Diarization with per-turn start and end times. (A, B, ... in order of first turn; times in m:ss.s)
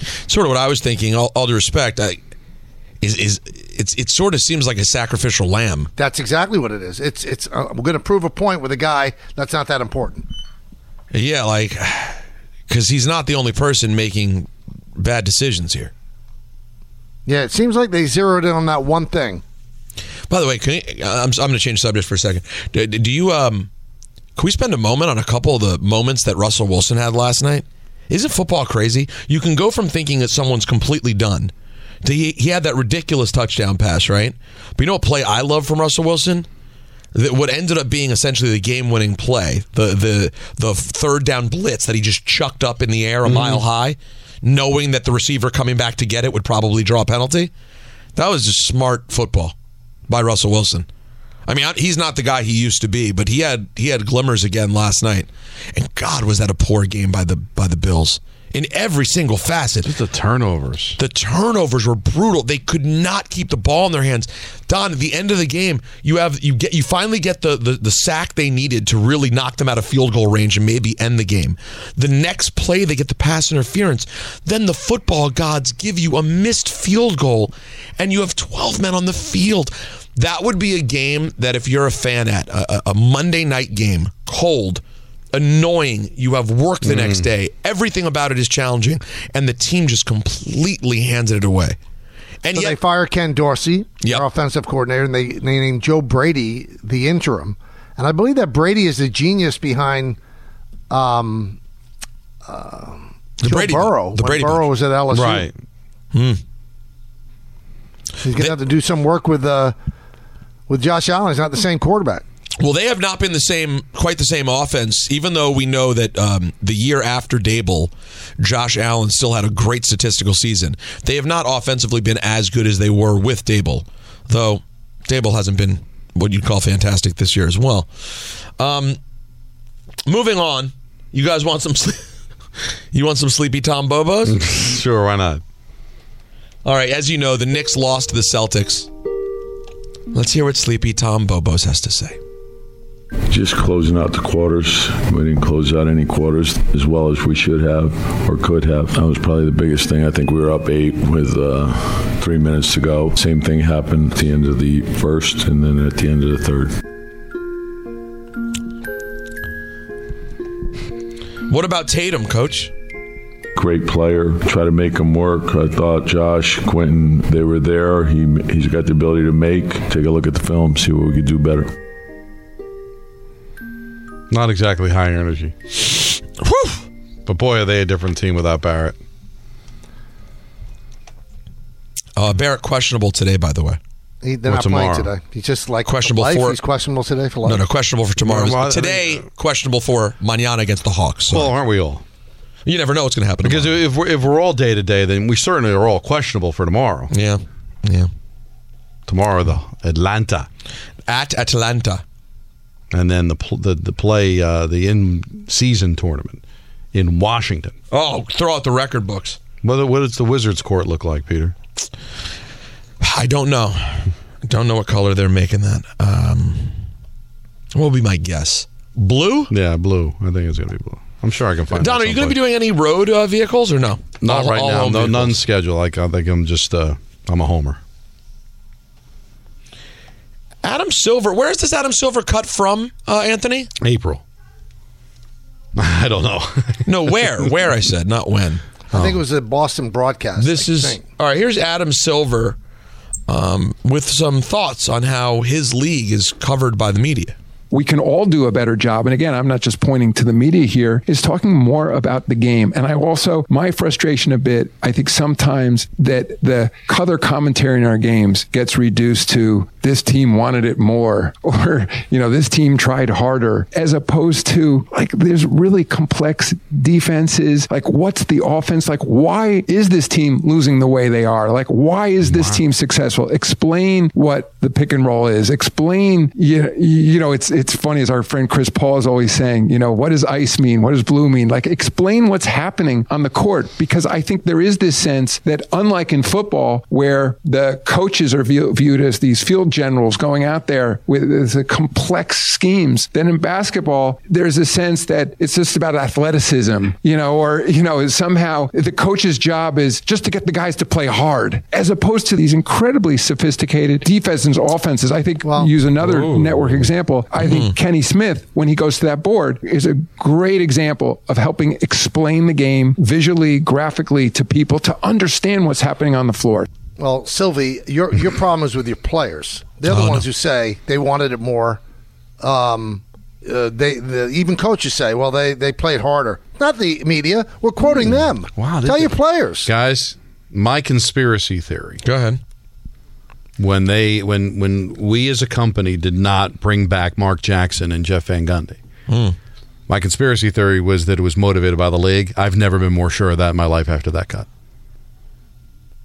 0:00.3-0:02.2 A
0:03.0-0:05.9 A
0:06.0-0:10.3 B
0:11.1-0:15.9 A
0:17.3-0:19.4 B
0:20.3-0:23.7 A
0:24.4-0:36.5 A
0:37.1-0:47.5 A
0:43.3-0:43.6 C
0:48.2-0:49.6 A
0:50.1-0:50.9 A
0:51.5-0:59.9 A
0:59.8-1:01.0 C
1:01.0-1:31.8 A
1:26.8-1:27.3 C
1:32.4-1:32.8 A
1:32.5-1:40.2 B
1:34.0-1:34.3 A
1:40.9-1:41.6 B
1:42.5-1:45.5 B
1:43.4-1:44.7 A
1:45.1-1:45.5 C
1:46.1-1:46.4 A
1:48.2-1:49.8 B
1:50.7-1:52.2 B
1:52.6-2:09.0 A
2:10.1-2:12.1 A
2:12.9-2:14.4 A
2:14.3-2:15.4 C
2:16.6-2:18.9 A
2:20.1-2:22.2 A
2:23.3-2:36.7 D
2:41.5-2:42.7 A
2:43.6-2:51.7 D
2:54.3-2:55.6 C
2:56.4-2:56.8 A
2:57.3-2:59.0 C
3:02.2-3:03.8 A
3:04.2-3:07.6 B
3:04.4-3:05.1 C
3:05.8-3:06.6 A
3:07.4-3:11.6 A
3:08.2-3:09.3 C
3:11.3-3:12.0 C
3:12.7-3:13.8 A
3:13.4-3:17.1 C
3:17.1-3:18.1 A
3:19.1-3:20.5 C
3:21.1-3:22.0 A
3:22.9-3:26.4 C
3:26.9-3:27.8 C
3:27.9-3:29.4 A
3:29.6-3:31.6 C
3:33.0-3:36.8 A
3:37.7-3:39.5 A
3:39.5-3:42.4 C
3:41.7-3:45.4 A
3:44.2-3:47.8 C
3:50.6-3:53.7 A
3:53.8-3:54.2 C
3:55.8-3:57.3 C
3:56.9-3:58.6 A
3:58.9-4:01.0 B
3:58.9-3:59.2 C
4:00.4-4:02.6 A
4:03.3-4:07.4 A
4:07.7-5:16.7 E
4:32.3-4:32.6 C
5:05.4-5:05.7 B
5:06.0-5:06.8 C
5:07.4-5:07.7 A
5:17.0-5:21.8 B
5:19.9-5:20.3 A
5:22.4-5:29.7 B
5:28.6-5:32.0 C
5:32.0-5:32.4 A
5:33.6-5:38.8 C
5:39.1-5:39.4 A
5:39.9-5:44.5 C